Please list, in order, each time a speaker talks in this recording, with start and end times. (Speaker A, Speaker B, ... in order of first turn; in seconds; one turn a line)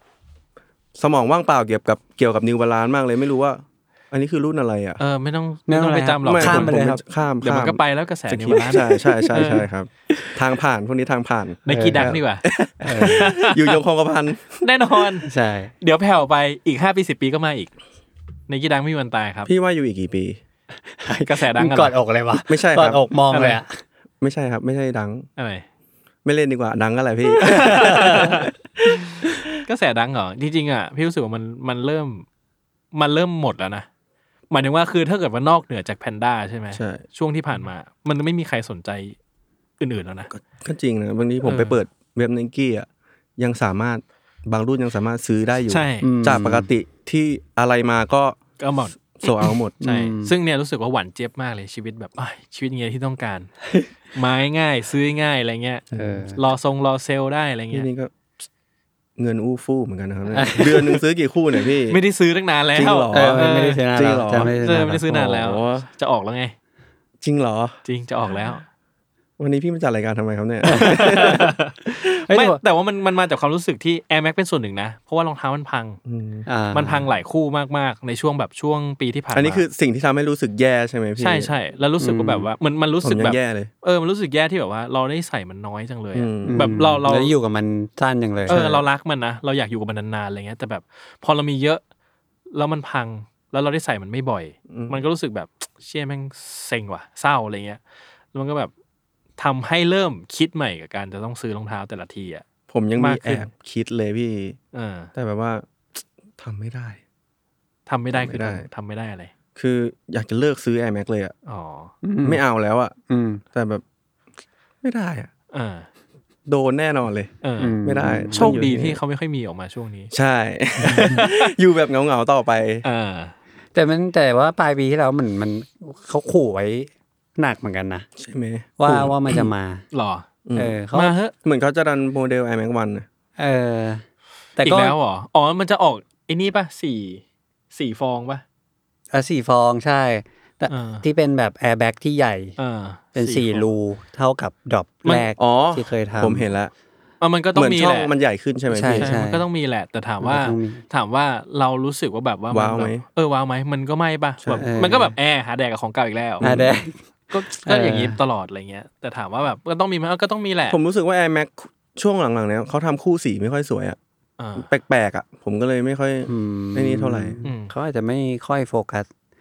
Speaker A: 1.0-5.0
Speaker B: 5.0-6.8
Speaker C: 5.7-7.0
Speaker A: 6.2-14.6
Speaker B: 7.4-9.7
Speaker C: 8.6-9.6
Speaker B: 11.7-13.8
Speaker C: 11.7-12.1
Speaker C: 12.8-13.3
Speaker B: 14.6-15.3
Speaker C: 15.2-15.7
Speaker B: 15.8-17.7
Speaker B: 18.5-19.5
Speaker A: 19.4-20.4
Speaker C: 20.9-23.8
Speaker B: 21.2-21.9
Speaker A: 22.5-23.0
Speaker B: 23.3-23.6
Speaker A: 24.2-25.2
Speaker B: 25.4-25.6
Speaker A: 26.2-28.9
Speaker B: 27.4-28.5
Speaker C: 27.8-28.3
Speaker B: 29.6-32.2
Speaker B: 32.9-33.9
Speaker B: 34.5-39.1
Speaker A: 36.7-37.0
Speaker B: 39.8-40.3
Speaker A: 40.3-42.9
Speaker B: 41.4-41.8
Speaker A: 43.4-48.4
Speaker B: 45.7-46.1
Speaker C: 46.0-46.7
Speaker B: 48.6-53.5
Speaker A: 49.1-49.7
Speaker C: 49.8-50.3
Speaker B: 54.1-57.9
Speaker A: 55.9-56.2
Speaker C: 55.9-56.4
Speaker A: 57.7-58.1
Speaker A: 59.2-62.0
Speaker C: 60.3-61.0
Speaker B: 61.9-63.8
Speaker A: 62.7-64.5
Speaker C: 63.1-65.4
Speaker B: 64.4-66.5
Speaker A: 65.3-65.9
Speaker A: 67.2-67.8
Speaker B: 67.8-68.6
Speaker A: 69.4-71.5
Speaker C: 70.7-71.4
Speaker B: 70.7-76.0
Speaker C: 72.3-72.6
Speaker A: 76.0-76.5
Speaker C: 76.5-77.0
Speaker B: 76.7-79.6
Speaker A: 79.3-81.5
Speaker B: 81.2-87.3
Speaker C: 82.0-82.5
Speaker A: 83.0-83.7
Speaker A: 86.1-86.7
Speaker C: 86.4-88.6
Speaker B: 88.5-91.8
Speaker A: 88.5-88.8
Speaker B: 92.5-97.8
Speaker A: 94.7-95.0
Speaker B: 98.3-98.7
Speaker B: 99.4-102.5
Speaker A: 102.7-104.6
Speaker B: 103.0-103.5
Speaker B: 104.7-105.1
Speaker A: 105.1-105.7
Speaker A: 106.4-107.0
Speaker B: 107.9-109.3
Speaker A: 108.1-108.7
Speaker A: 109.5-111.3
Speaker B: 111.5-111.9
Speaker C: 112.0-112.4
Speaker A: 112.2-112.9
Speaker C: 113.1-113.4
Speaker A: 113.5-113.8
Speaker A: 114.8-115.3
Speaker B: 115.5-115.9
Speaker A: 116.5-119.0
Speaker B: 117.4-117.8
Speaker C: 117.6-118.6
Speaker B: 118.3-120.1
Speaker A: 120.1-122.8
Speaker B: 121.0-121.5
Speaker B: 122.8-123.3
Speaker C: 123.7-128.1
Speaker A: 128.2-129.5
Speaker C: 128.8-129.8
Speaker B: 129.9-130.3
Speaker A: 130.4-130.7
Speaker C: 130.6-131.2
Speaker B: 130.9-131.3
Speaker A: 131.4-133.1
Speaker C: 133.4-134.0
Speaker B: 134.6-138.4
Speaker C: 134.6-134.9
Speaker C: 139.1-142.6
Speaker B: 140.7-141.0
Speaker B: 142.6-143.7
Speaker C: 143.1-146.5
Speaker A: 145.4-146.7
Speaker B: 147.2-148.1
Speaker A: 147.5-149.1
Speaker C: 148.7-149.4
Speaker B: 149.0-156.5
Speaker C: 150.2-150.8
Speaker A: 152.5-153.0
Speaker C: 154.6-155.1
Speaker A: 156.4-156.8
Speaker C: 156.4-158.2
Speaker B: 157.3-160.8
Speaker A: 160.7-164.0
Speaker B: 164.4-164.7
Speaker A: 164.6-167.4
Speaker C: 166.3-169.1
Speaker B: 167.4-167.7